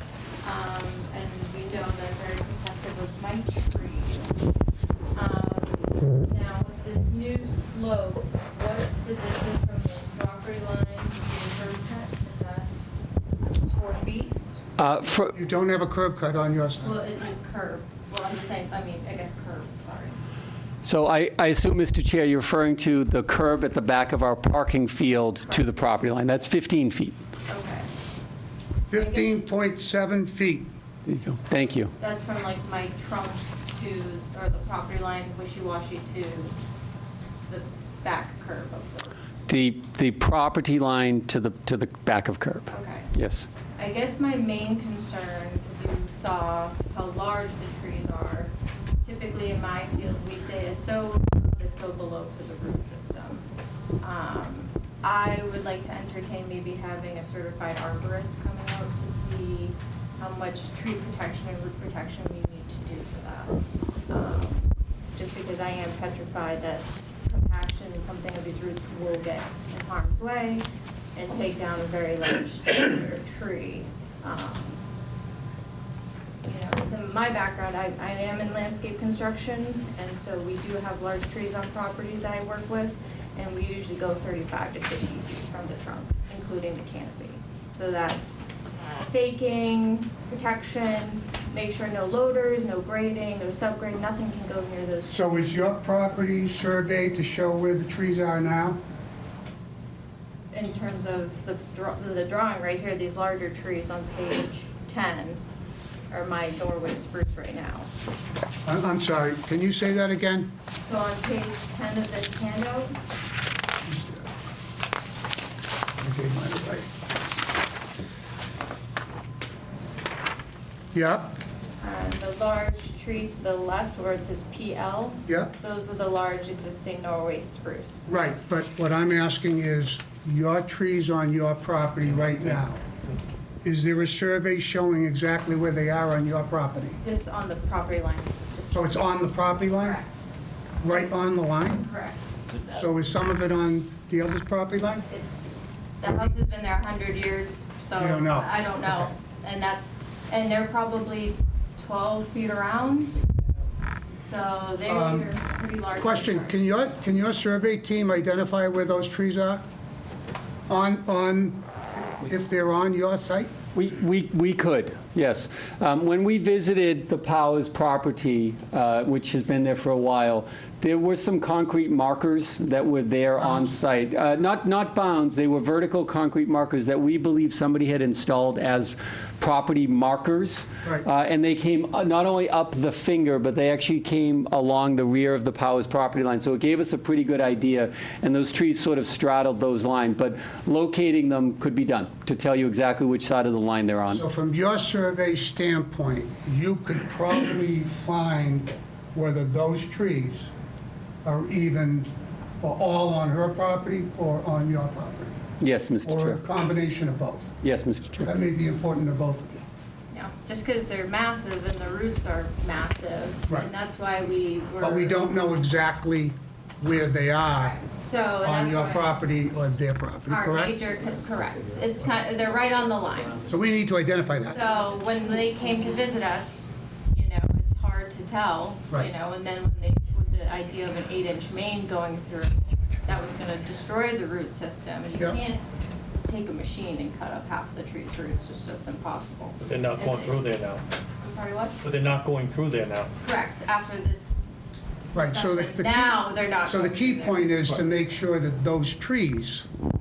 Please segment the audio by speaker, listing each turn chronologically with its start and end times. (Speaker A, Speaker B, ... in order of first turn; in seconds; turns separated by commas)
Speaker A: 0.4-4.5, Speaker A: 5.1-12.7, Speaker A: 13.6-14.3, Speaker B: 14.8-15.3, Speaker C: 15.3-16.9, Speaker A: 16.8-20.1, Speaker B: 20.8-27.2, Speaker A: 27.5-27.9, Speaker C: 28.9-30.7, Speaker A: 28.9-29.4, Speaker B: 31.1-31.9, Speaker A: 31.9-36.5, Speaker A: 37.5-39.1, Speaker B: 39.5-43.5, Speaker A: 42.7-43.1, Speaker A: 43.8-53.4, Speaker A: 54.0-63.5, Speaker A: 64.1-74.8, Speaker A: 76.4-88.4, Speaker A: 89.0-95.5, Speaker C: 95.1-98.8, Speaker A: 100.5-105.4, Speaker A: 106.1-107.9, Speaker C: 108.6-110.5, Speaker A: 110.8-113.0, Speaker C: 113.8-114.3, Speaker C: 116.0-116.9, Speaker C: 120.9-121.3, Speaker A: 121.8-128.1, Speaker C: 125.3-125.5, Speaker C: 128.1-132.8, Speaker D: 132.1-132.5, Speaker C: 133.6-137.0, Speaker A: 137.0-139.1, Speaker C: 138.7-140.0, Speaker A: 139.7-140.2, Speaker C: 140.8-141.8, Speaker A: 140.8-141.2, Speaker A: 141.7-142.3, Speaker C: 142.7-145.1, Speaker A: 145.1-145.4, Speaker A: 146.0-153.2, Speaker C: 148.0-149.1, Speaker A: 154.1-156.6, Speaker C: 154.8-155.3, Speaker C: 155.9-159.6, Speaker C: 160.7-163.5, Speaker B: 163.7-194.2, Speaker C: 173.4-173.7, Speaker C: 194.1-200.5, Speaker C: 201.2-202.1, Speaker C: 202.6-205.4, Speaker B: 205.6-206.4, Speaker C: 206.0-207.5, Speaker B: 207.6-208.3, Speaker C: 208.2-209.6, Speaker A: 210.1-215.3, Speaker C: 214.8-217.8, Speaker A: 217.4-219.1, Speaker C: 218.4-220.8, Speaker A: 220.3-223.5, Speaker C: 223.5-224.6, Speaker A: 224.4-235.6, Speaker A: 236.3-240.5, Speaker D: 239.6-240.8, Speaker A: 241.2-241.8, Speaker D: 241.8-243.1, Speaker A: 243.2-244.4, Speaker A: 245.1-247.6, Speaker C: 245.1-249.7